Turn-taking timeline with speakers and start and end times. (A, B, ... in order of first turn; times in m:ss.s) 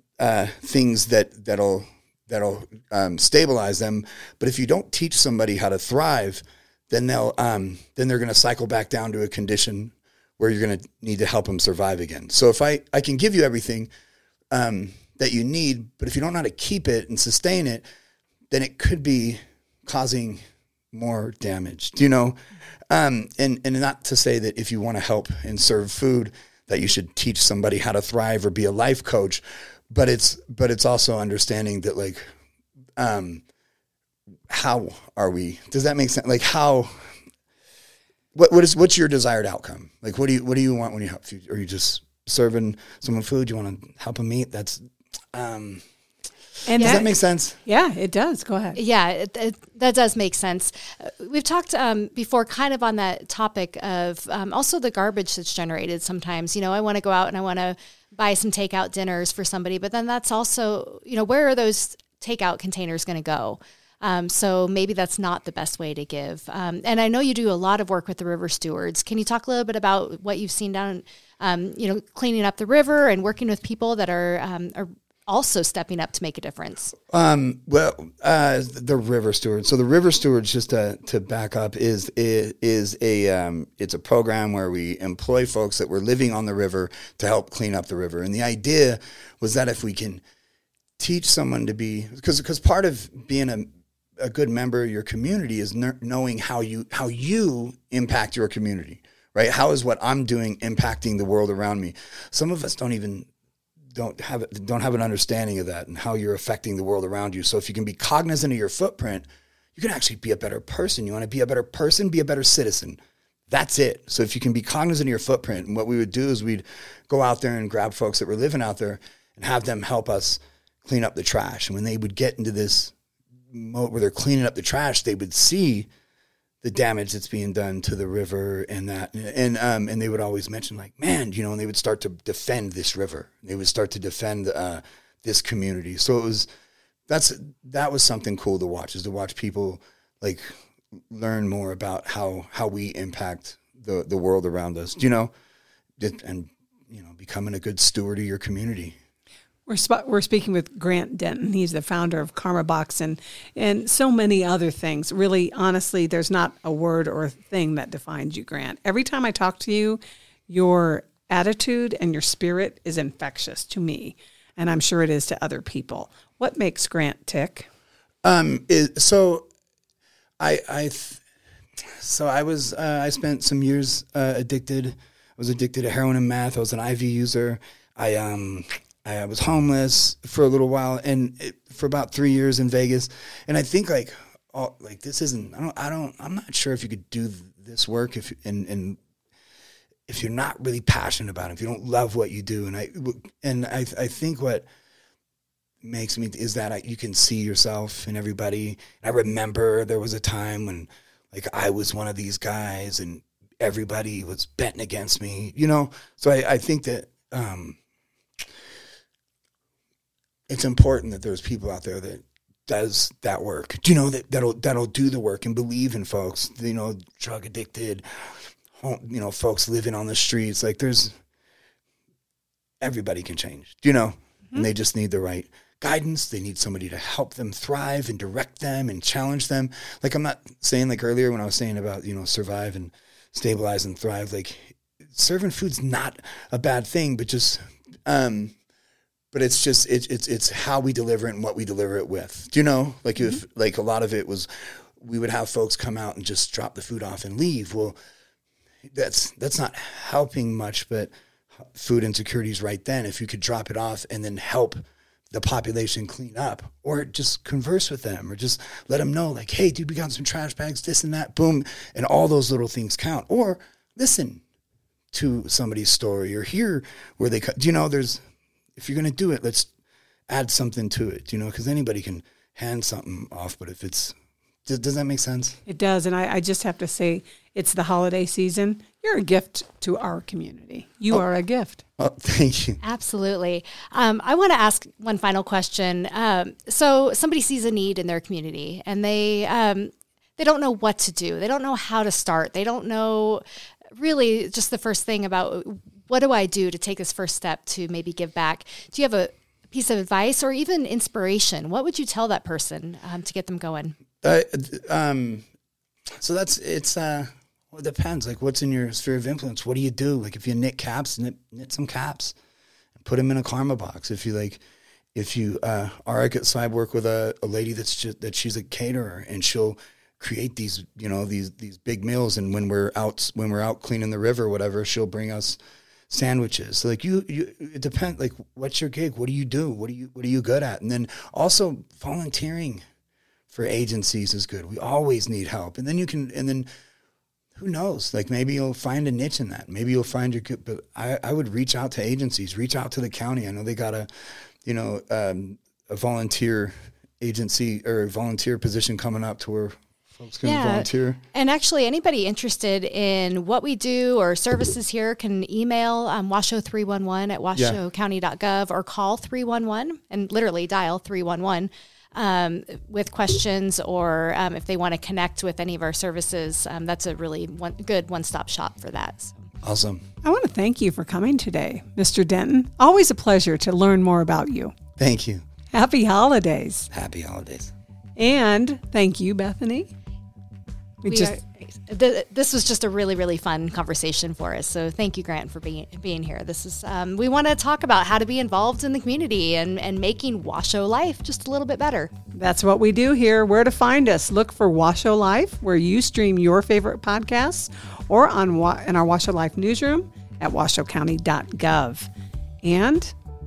0:00.2-0:13.9 A
0:14.5-0:17.8 A
0:18.5-0:22.4 A
0:22.9-0:32.3 A
0:33.0-0:33.4 A
0:34.5-0:36.9 A
0:38.3-0:45.8 A
0:46.6-0:48.8 B
0:46.7-0:47.6 A
0:48.8-1:16.9 C
1:17.1-1:30.2 A
1:31.0-1:43.3 A
1:43.9-2:02.9 A
2:03.5-2:05.9 A
2:06.6-2:16.5 A
2:17.1-2:20.5 A
2:21.1-2:25.3 A
2:26.0-2:29.0 A
2:29.7-2:47.7 B
2:48.2-2:49.4 A
2:50.4-2:51.2 A
2:52.0-3:09.0 A
3:10.1-3:14.6 A
3:15.8-3:27.8 A
3:30.5-3:41.1 A
3:42.8-3:58.5 A
3:59.3-4:08.0 A
4:08.9-4:24.4 A
4:25.1-4:28.2 A
4:28.8-4:29.7 A
4:30.3-4:34.1 A
4:34.6-4:35.6 A
4:35.6-4:41.8 B
4:42.0-4:42.8 A
4:42.8-4:53.4 C
4:54.0-5:03.9 C
5:04.2-5:05.4 A
5:06.2-5:12.3 A
5:13.0-5:14.6 A
5:15.1-5:32.8 A
5:33.5-5:36.7 A
5:37.6-5:44.1 A
5:44.6-5:51.2 A
5:50.4-6:09.4 C
6:09.6-6:10.0 A
6:10.2-6:14.7 B
6:15.0-6:15.4 A
6:15.7-6:16.9 B
6:16.9-6:17.7 A
6:18.2-6:19.9 B
6:21.0-6:21.4 B
6:21.0-6:32.1 C
6:32.3-6:42.1 B
6:42.6-6:43.1 B